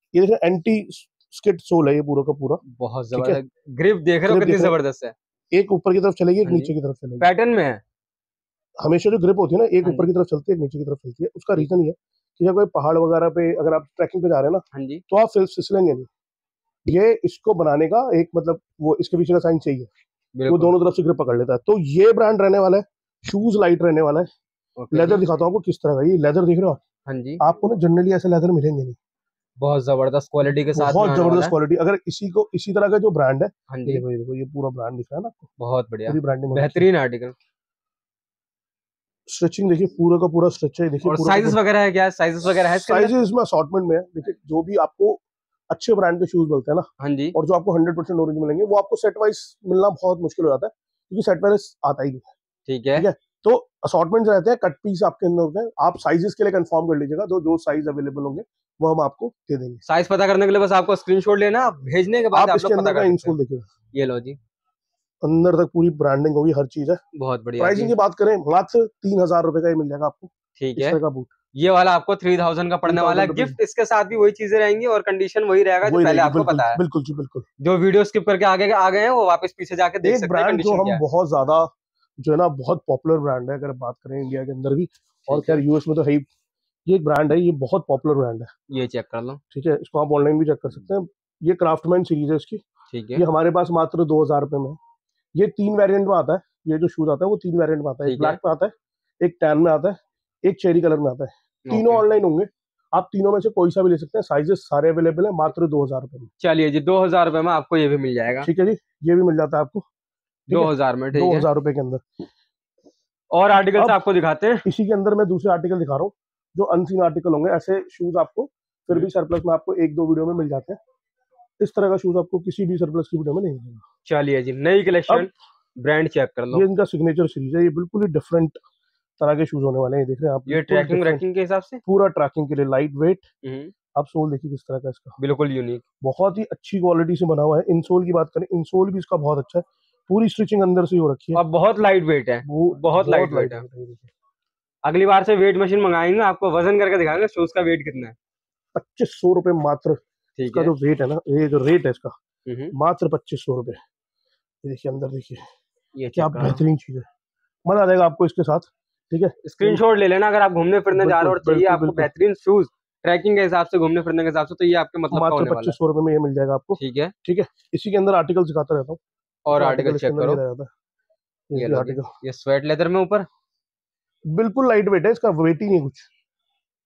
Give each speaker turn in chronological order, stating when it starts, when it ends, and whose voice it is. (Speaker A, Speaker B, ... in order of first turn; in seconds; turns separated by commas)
Speaker A: 0.1-2.6, Speaker B: 2.6-5.1, Speaker A: 4.3-4.8, Speaker A: 5.5-7.3, Speaker B: 6.5-7.8, Speaker A: 8.8-16.1, Speaker B: 14.7-15.0, Speaker A: 16.9-19.9, Speaker B: 20.4-20.7, Speaker A: 20.5-24.3, Speaker B: 24.8-25.3, Speaker A: 24.9-26.8, Speaker B: 27.1-27.4, Speaker A: 27.4-29.0, Speaker B: 29.6-31.5, Speaker A: 30.7-35.5, Speaker B: 33.7-34.0, Speaker B: 35.6-37.4, Speaker A: 36.1-36.9, Speaker A: 39.3-41.6, Speaker B: 41.0-43.1, Speaker A: 42.7-52.3, Speaker B: 47.0-47.4, Speaker B: 52.7-53.1, Speaker A: 53.0-59.8, Speaker B: 59.9-63.4, Speaker A: 62.3-63.7, Speaker B: 63.9-64.4, Speaker A: 65.2-67.0, Speaker B: 67.1-67.9, Speaker A: 67.6-71.3, Speaker B: 70.6-71.0, Speaker B: 71.5-76.8, Speaker A: 72.8-73.6, Speaker A: 75.8-77.5, Speaker B: 77.6-81.0, Speaker A: 80.0-81.7, Speaker A: 82.2-86.3, Speaker B: 85.3-85.6, Speaker A: 86.9-88.5, Speaker B: 88.7-89.4, Speaker A: 89.5-92.6, Speaker B: 92.9-93.2, Speaker A: 93.2-94.8, Speaker A: 95.3-106.3, Speaker B: 98.0-98.4, Speaker B: 101.7-102.0, Speaker B: 106.4-108.5, Speaker A: 108.4-109.8, Speaker A: 110.5-112.0, Speaker B: 110.5-111.5, Speaker B: 113.3-114.7, Speaker A: 113.7-114.0, Speaker A: 114.7-120.8, Speaker A: 121.6-123.8, Speaker B: 124.0-126.7, Speaker A: 126.5-128.6, Speaker A: 129.2-131.2, Speaker B: 130.5-131.8, Speaker A: 131.8-133.2, Speaker B: 133.4-133.7, Speaker A: 133.9-135.2, Speaker B: 135.2-135.8, Speaker A: 136.0-141.4, Speaker B: 141.3-143.7, Speaker A: 142.4-144.1, Speaker B: 144.8-148.2, Speaker A: 148.8-152.2, Speaker B: 150.4-150.7, Speaker B: 152.5-152.7, Speaker A: 152.7-153.8, Speaker A: 154.6-155.5, Speaker B: 155.9-156.6, Speaker A: 156.2-157.1, Speaker A: 157.7-159.8, Speaker B: 159.4-165.8, Speaker A: 160.9-162.1, Speaker A: 165.1-169.0, Speaker B: 166.8-167.1, Speaker B: 169.5-170.4, Speaker A: 169.5-170.7, Speaker A: 171.5-172.1, Speaker B: 171.6-173.3, Speaker A: 174.3-176.1